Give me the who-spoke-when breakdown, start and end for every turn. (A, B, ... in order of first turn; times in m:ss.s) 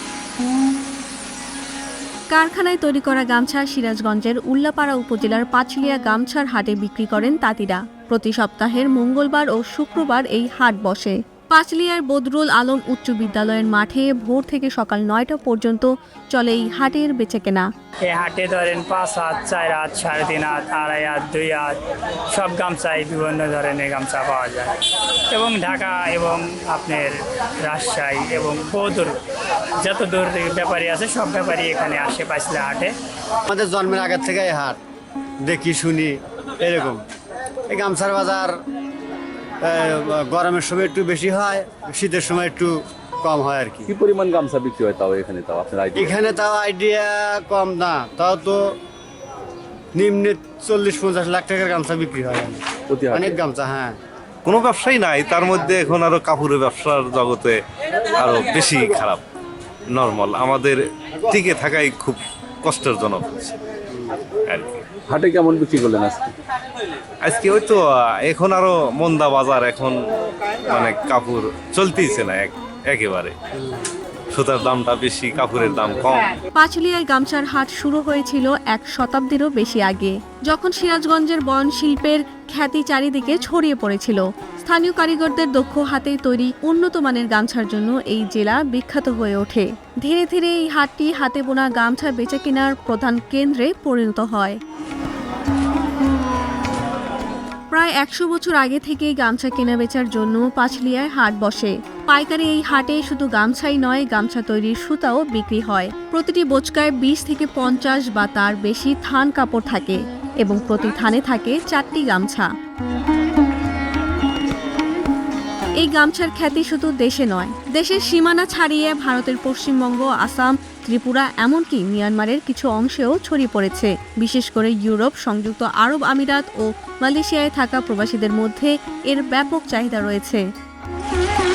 0:02.3-0:17.7 A
0:18.0-0:21.8 B
0:22.3-0:29.2 B
0:29.8-0:32.9 B
0:33.5-0:34.8 C
0:35.4-0:37.0 C
0:37.7-0:38.6 C
0:39.6-0:43.9 C
0:43.9-0:46.2 D
0:46.0-0:48.8 C
0:49.9-0:54.0 C
0:52.9-0:53.4 D
0:54.4-0:57.6 E
0:58.2-0:59.2 E
0:59.9-1:03.5 E
1:04.5-1:04.8 E
1:05.1-1:06.3 D
1:07.2-1:09.9 E
1:10.7-1:13.3 E
1:14.3-1:16.4 E
1:16.5-1:34.6 A
1:37.7-1:52.5 A
1:55.8-2:10.4 A